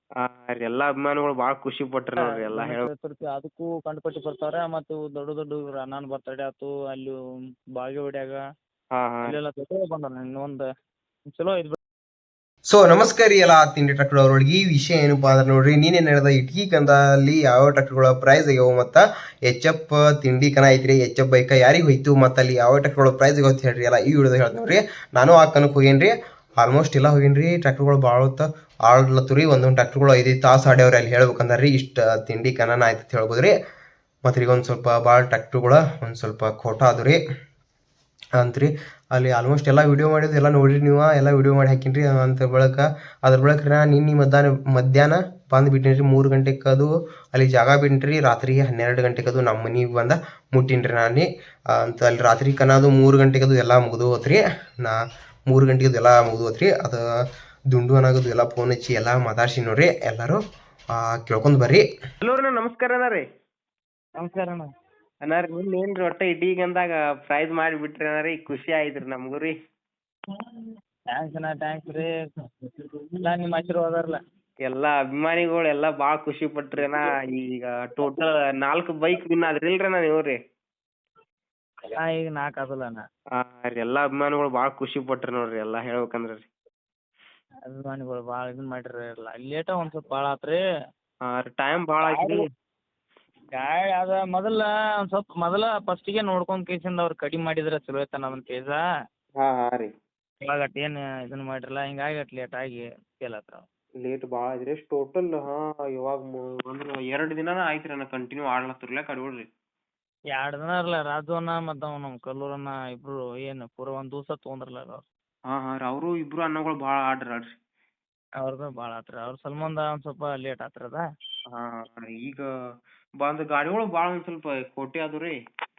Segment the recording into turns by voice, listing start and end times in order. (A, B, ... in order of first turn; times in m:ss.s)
0:00.2-0:02.9 A
0:02.2-0:07.1 B
0:07.8-0:08.4 B
0:09.0-0:09.4 A
0:09.2-0:10.6 B
0:11.3-0:11.8 B
0:12.7-0:33.5 C
0:34.2-0:37.2 C
0:38.4-0:55.0 C
0:55.5-0:57.0 C
0:57.7-1:00.4 C
1:01.0-1:01.8 C
1:02.2-1:03.2 A
1:04.2-1:04.7 B
1:05.3-1:09.5 A
1:11.1-1:12.1 B
1:12.6-1:14.2 B
1:14.7-1:20.4 A
1:21.9-1:23.0 B
1:23.4-1:26.5 A
1:27.7-1:30.6 B
1:31.3-1:32.5 A
1:32.0-1:32.4 B
1:33.6-1:38.8 B
1:39.4-1:39.9 A
1:40.4-1:43.6 B
1:44.0-1:49.5 A
1:50.3-1:55.0 B
1:55.5-1:57.5 A
1:58.4-2:01.0 B
2:01.5-2:02.4 A
2:03.2-2:05.4 A